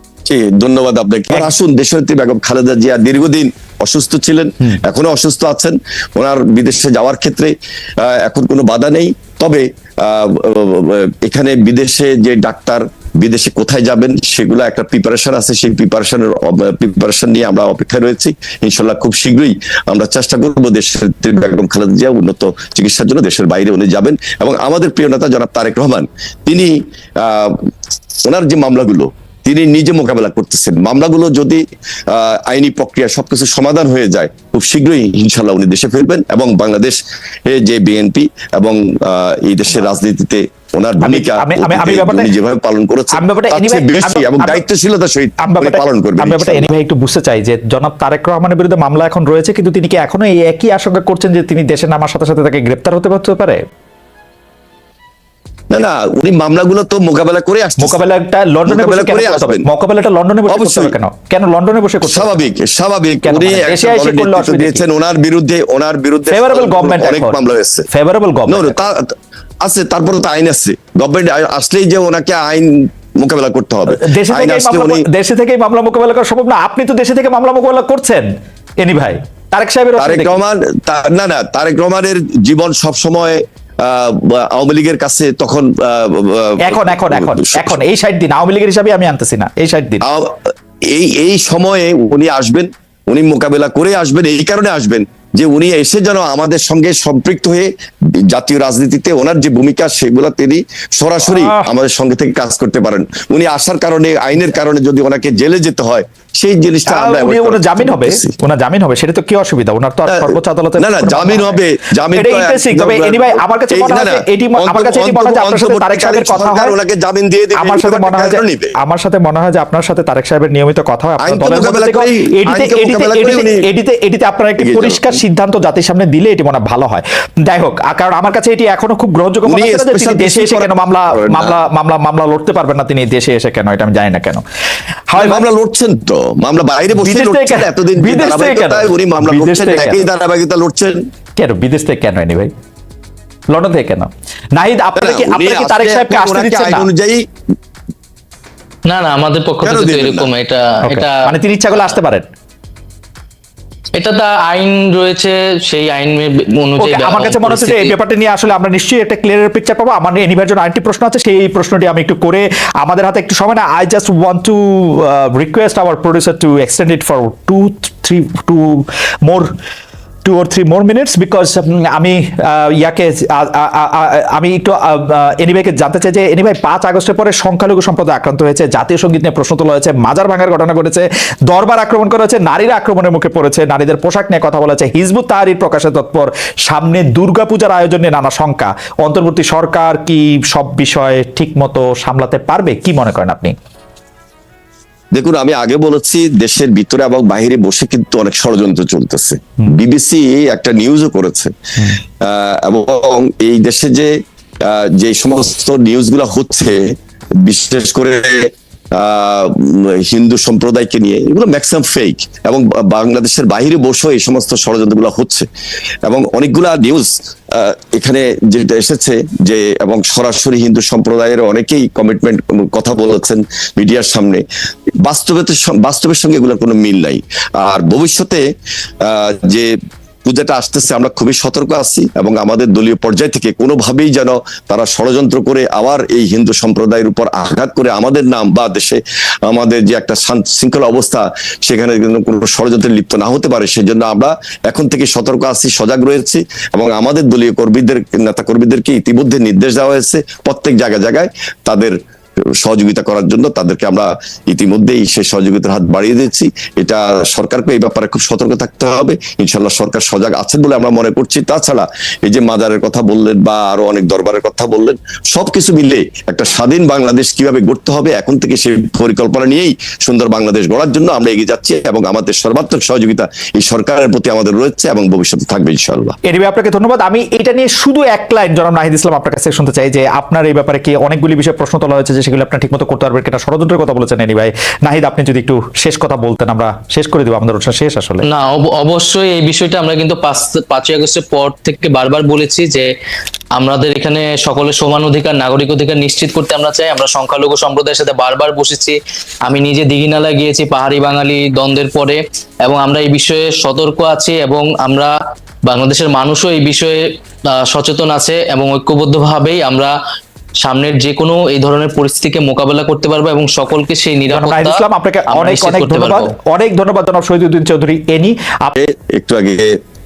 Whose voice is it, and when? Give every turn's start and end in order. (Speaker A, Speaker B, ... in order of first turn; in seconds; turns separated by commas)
Speaker A: 0.3-27.7, Speaker A: 28.2-46.7, Speaker B: 41.0-42.3, Speaker B: 43.1-44.6, Speaker B: 45.4-53.6, Speaker A: 55.7-58.0, Speaker B: 57.8-62.4, Speaker A: 58.7-59.7, Speaker A: 60.5-61.0, Speaker A: 62.0-67.9, Speaker B: 63.2-64.8, Speaker B: 66.3-67.4, Speaker B: 67.9-68.8, Speaker A: 68.5-75.0, Speaker B: 73.9-78.3, Speaker B: 78.8-80.4, Speaker A: 80.0-87.8, Speaker B: 86.6-90.0, Speaker A: 90.0-97.7, Speaker A: 98.2-108.3, Speaker B: 101.3-101.7, Speaker B: 106.9-111.6, Speaker A: 110.1-118.8, Speaker B: 112.1-116.7, Speaker B: 117.6-134.4, Speaker A: 121.2-123.7, Speaker A: 124.6-125.2, Speaker A: 129.5-131.6, Speaker B: 135.1-135.4, Speaker A: 135.2-141.0, Speaker B: 137.0-140.0, Speaker B: 141.4-142.5, Speaker B: 143.5-146.9, Speaker A: 145.0-147.2, Speaker C: 148.9-151.2, Speaker A: 149.6-150.3, Speaker B: 150.9-152.3, Speaker C: 153.9-157.9, Speaker B: 156.8-169.5, Speaker B: 170.2-193.6, Speaker A: 195.1-201.5, Speaker A: 202.2-215.5, Speaker A: 216.1-224.4, Speaker A: 225.0-228.4, Speaker A: 229.0-229.7, Speaker A: 230.2-252.0, Speaker A: 252.6-276.2, Speaker B: 276.3-288.2, Speaker C: 288.3-292.9, Speaker C: 293.6-305.1, Speaker C: 305.7-309.9, Speaker C: 310.6-316.3, Speaker B: 314.3-318.7, Speaker A: 318.8-319.8